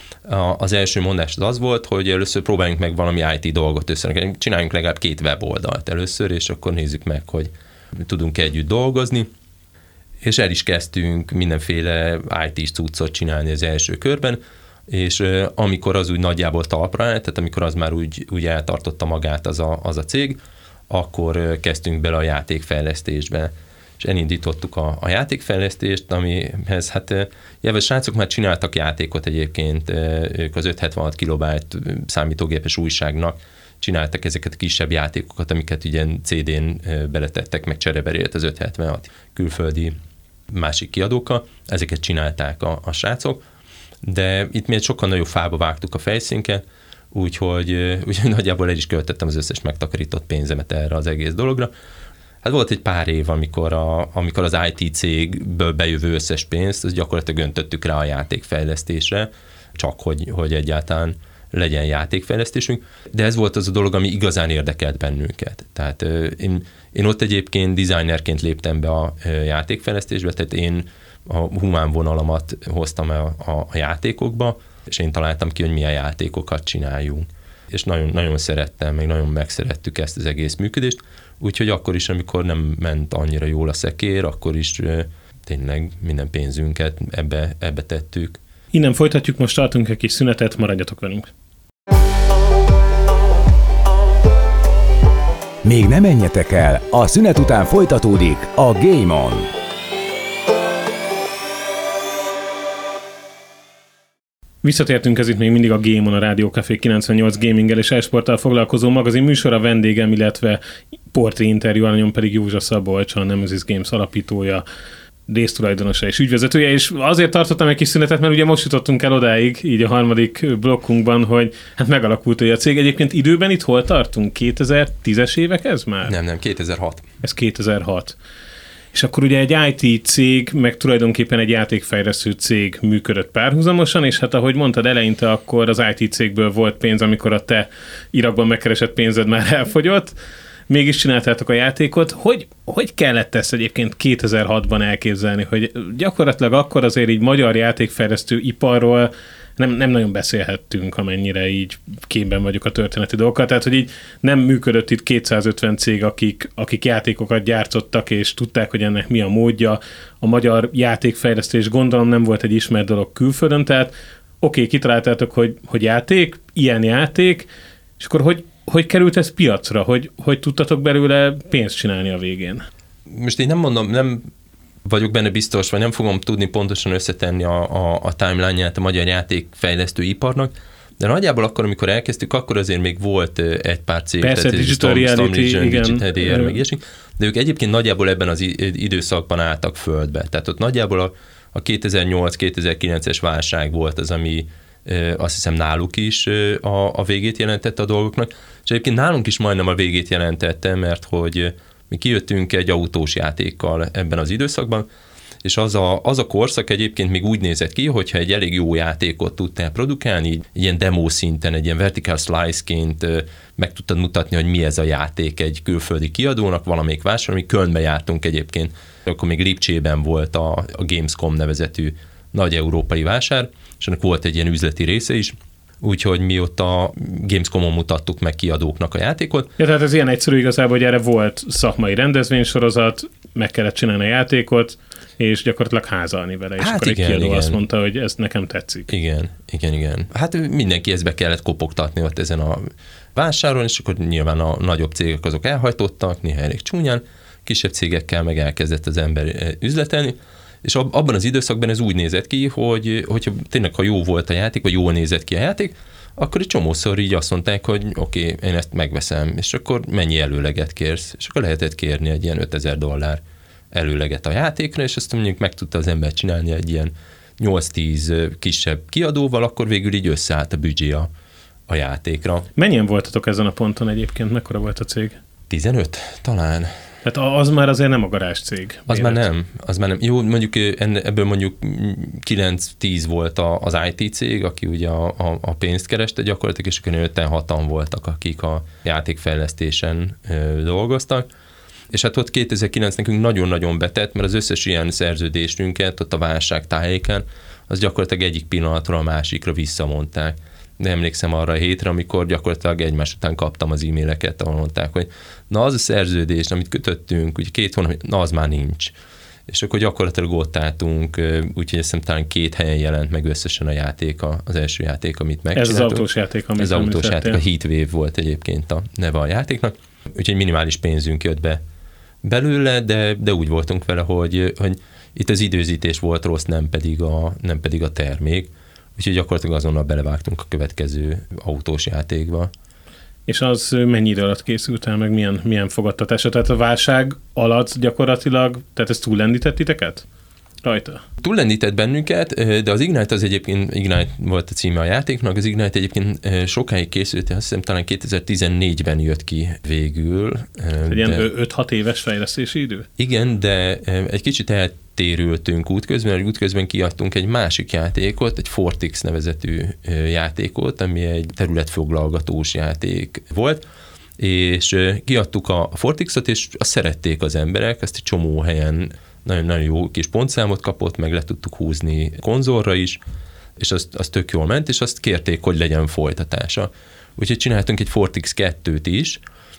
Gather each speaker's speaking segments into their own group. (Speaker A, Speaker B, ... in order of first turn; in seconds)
Speaker A: 0.3-9.3, 10.2-40.0, 40.5-43.4, 44.0-51.7, 52.4-88.4, 126.0-127.1, 173.1-174.3, 174.8-204.9, 205.4-229.5, 236.6-237.6, 238.9-271.1, 271.7-272.5, 275.5-276.7, 278.9-291.3, 291.9-308.9, 309.5-316.1, 316.6-321.6, 322.2-332.5, 341.2-351.3, 353.0-363.6, 364.2-373.0, 373.6-379.2
Speaker B: 88.7-91.3, 104.6-110.6, 111.1-114.6, 115.3-126.1, 127.2-128.2, 128.9-140.2, 140.7-172.7, 184.2-186.6, 229.6-238.9, 272.6-275.2, 277.1-279.2, 315.6-317.4, 333.3-340.1, 340.6-341.0, 350.9-352.9
Speaker C: 95.6-99.5